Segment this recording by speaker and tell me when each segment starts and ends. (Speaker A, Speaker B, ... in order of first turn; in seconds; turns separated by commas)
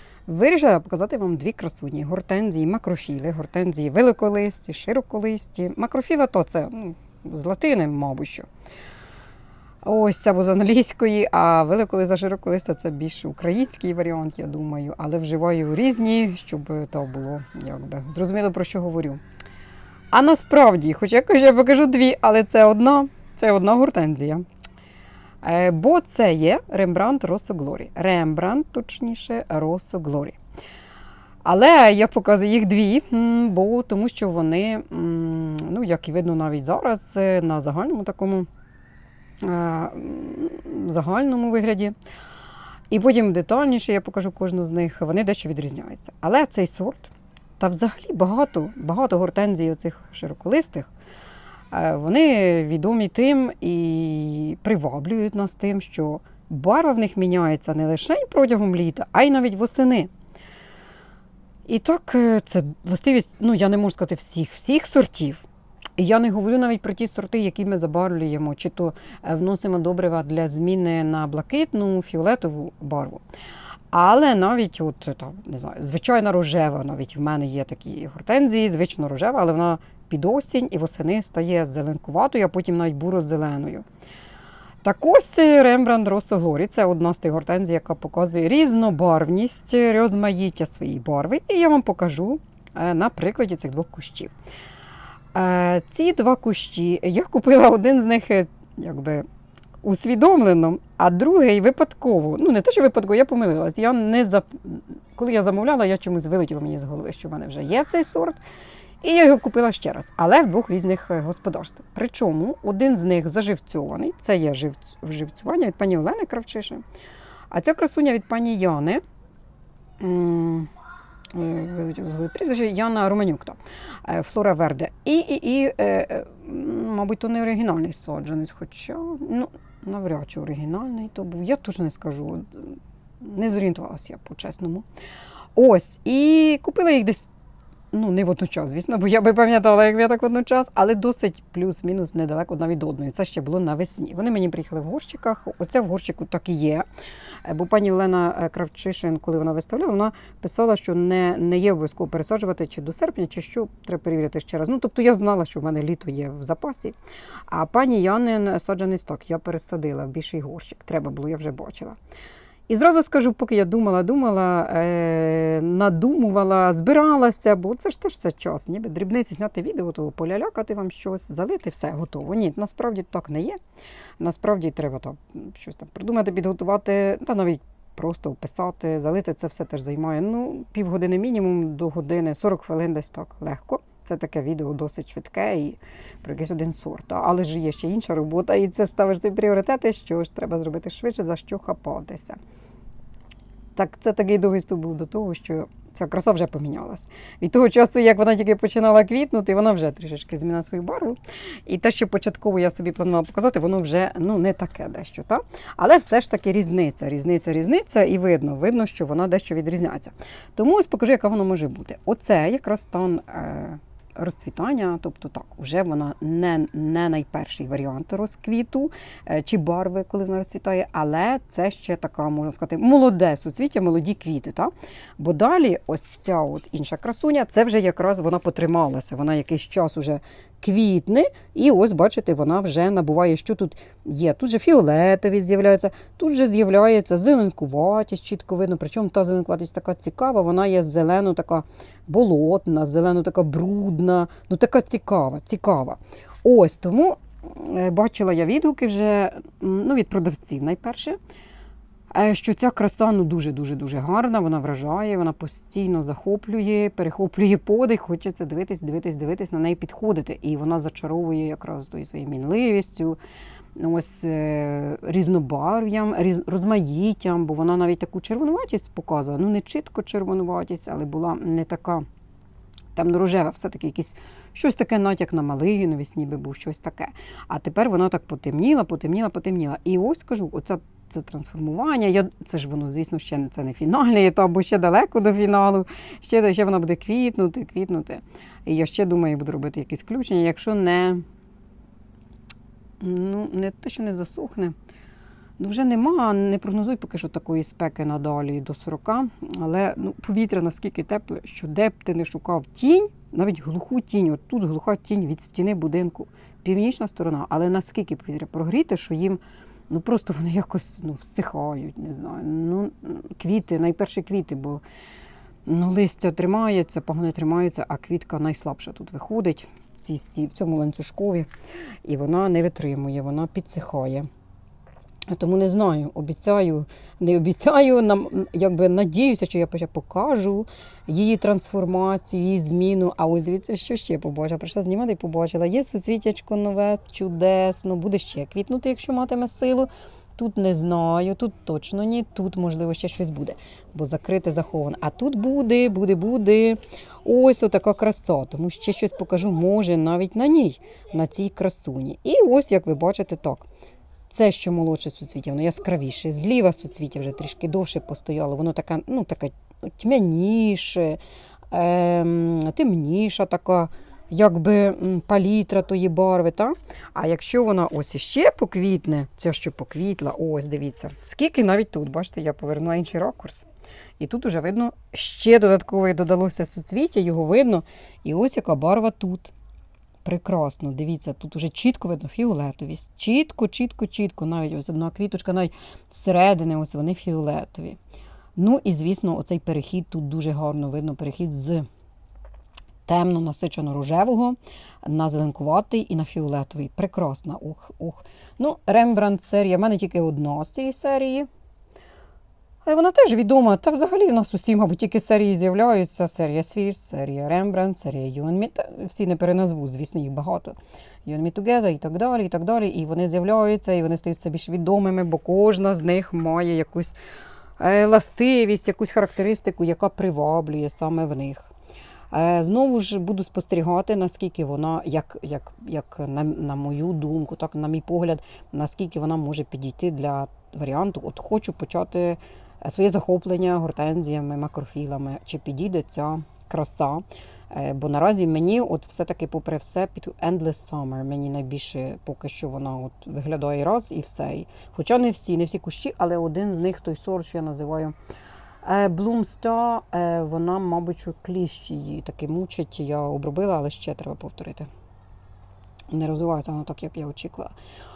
Speaker A: 0.3-8.5, Speaker A: 9.8-19.2, Speaker A: 20.1-24.4, Speaker A: 25.4-30.4, Speaker A: 31.4-38.5, Speaker A: 39.4-42.0, Speaker A: 42.9-50.9, Speaker A: 51.7-60.1, Speaker A: 61.7-65.4, Speaker A: 66.0-73.2, Speaker A: 73.9-83.8, Speaker A: 84.8-94.3, Speaker A: 95.3-99.2, Speaker A: 99.8-108.4, Speaker A: 109.0-116.8, Speaker A: 117.5-119.0, Speaker A: 120.0-120.7, Speaker A: 121.3-134.9, Speaker A: 135.6-137.3, Speaker A: 137.9-146.8, Speaker A: 147.4-156.9, Speaker A: 157.5-162.0, Speaker A: 162.7-173.6, Speaker A: 174.2-192.4, Speaker A: 193.8-251.2, Speaker A: 252.1-263.2, Speaker A: 263.8-272.1, Speaker A: 272.9-291.2, Speaker A: 293.0-294.8, Speaker A: 295.6-314.8, Speaker A: 315.7-321.5, Speaker A: 322.1-324.3, Speaker A: 325.3-353.7, Speaker A: 354.3-361.2, Speaker A: 361.7-373.7, Speaker A: 374.2-379.5, Speaker A: 380.2-388.0, Speaker A: 388.6-391.9, Speaker A: 393.1-401.5, Speaker A: 402.9-417.2, Speaker A: 417.8-421.7, Speaker A: 422.3-448.1, Speaker A: 448.8-454.9, Speaker A: 456.1-457.7